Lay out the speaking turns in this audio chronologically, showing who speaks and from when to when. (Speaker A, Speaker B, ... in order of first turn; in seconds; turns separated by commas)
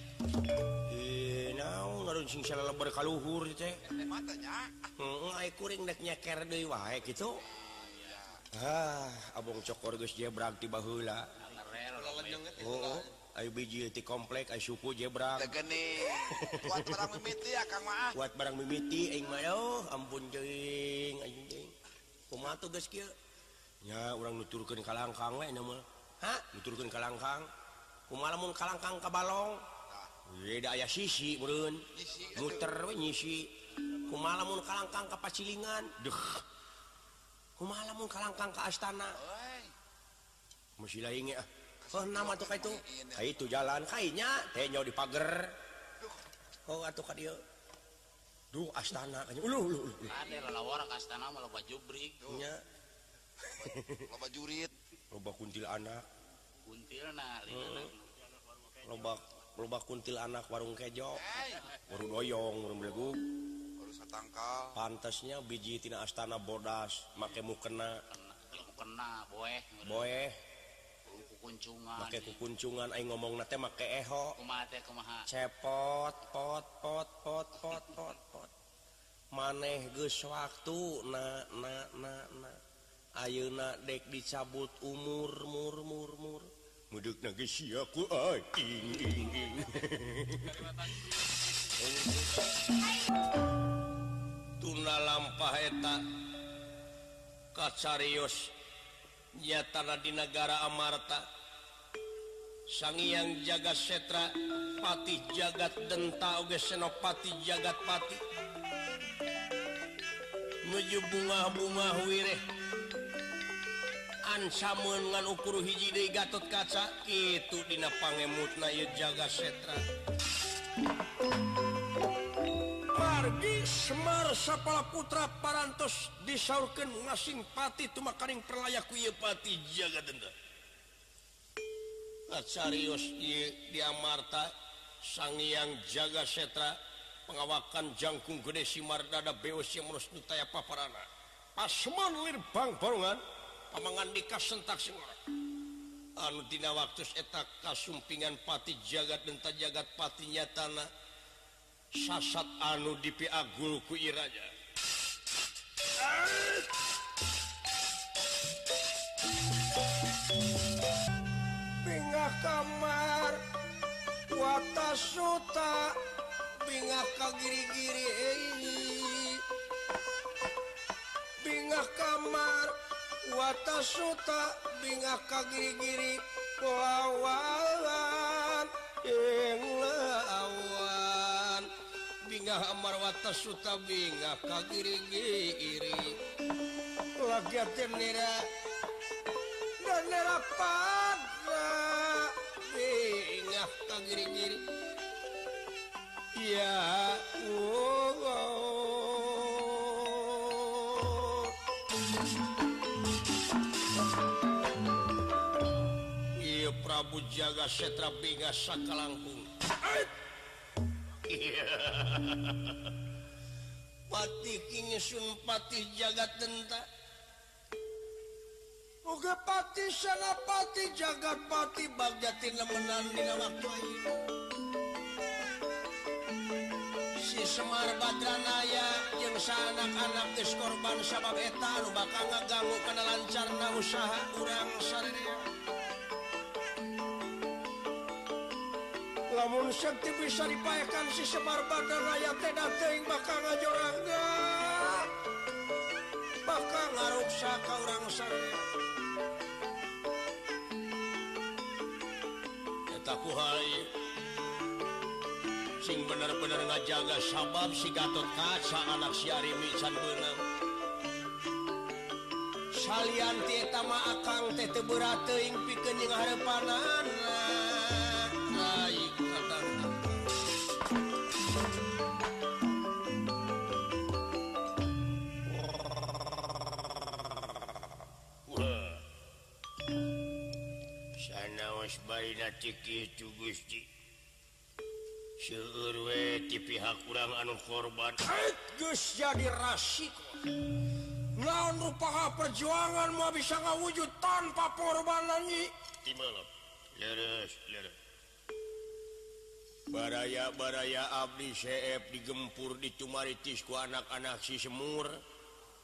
Speaker A: 0.8-3.8, Speaker B: 3.9-4.8, Speaker A: 5.0-7.4, Speaker B: 7.2-8.5, Speaker A: 8.5-11.3, Speaker C: 11.4-13.0, Speaker A: 12.6-15.6, Speaker B: 15.4-18.2, Speaker A: 16.3-17.1, Speaker A: 18.1-21.7, Speaker A: 22.3-23.1, Speaker A: 23.8-27.5, Speaker A: 28.1-29.6, Speaker A: 30.2-33.5, Speaker B: 31.9-32.7, Speaker A: 34.0-36.5, Speaker A: 37.6-39.2, Speaker B: 39.2-39.7, Speaker A: 40.8-45.5, Speaker B: 41.8-43.5, Speaker A: 46.7-47.4, Speaker A: 48.5-50.1, Speaker C: 50.1-52.4, Speaker A: 52.3-52.6, Speaker A: 53.5-54.1, Speaker B: 53.9-54.7, Speaker A: 55.1-56.0, Speaker C: 56.6-58.1, Speaker A: 57.5-57.9, Speaker A: 58.8-61.3, Speaker B: 61.1-61.6, Speaker A: 61.9-63.2, Speaker B: 63.8-64.7, Speaker A: 64.7-68.0, Speaker C: 68.1-70.2, Speaker A: 69.8-70.4, Speaker C: 71.0-72.4, Speaker A: 72.0-74.4, Speaker C: 74.4-75.2, Speaker A: 75.3-78.5, Speaker A: 79.3-82.6, Speaker A: 83.2-90.7, Speaker A: 91.8-92.3, Speaker A: 94.6-96.0, Speaker A: 97.5-98.5, Speaker A: 99.3-101.2, Speaker A: 102.7-108.2, Speaker A: 110.6-112.4, Speaker A: 114.2-119.8, Speaker A: 122.9-130.3, Speaker A: 132.3-145.2, Speaker A: 146.2-150.9, Speaker A: 151.9-154.5, Speaker A: 156.0-156.7, Speaker A: 161.8-163.4, Speaker A: 164.3-166.0, Speaker A: 166.6-169.4, Speaker A: 171.4-181.7, Speaker A: 182.2-186.2, Speaker A: 187.2-188.4, Speaker A: 189.8-194.6, Speaker A: 196.3-201.5, Speaker A: 206.4-210.1, Speaker D: 211.3-212.9, Speaker A: 214.1-216.8, Speaker A: 219.0-224.2, Speaker A: 227.2-235.4, Speaker A: 239.3-245.1, Speaker A: 246.4-248.7, Speaker A: 252.9-253.9, Speaker A: 255.8-260.4, Speaker A: 262.7-269.9, Speaker D: 278.5-279.1, Speaker D: 281.2-283.9, Speaker D: 285.4-288.2, Speaker A: 288.2-290.4, Speaker A: 291.3-295.7, Speaker D: 296.0-297.9, Speaker A: 299.9-305.2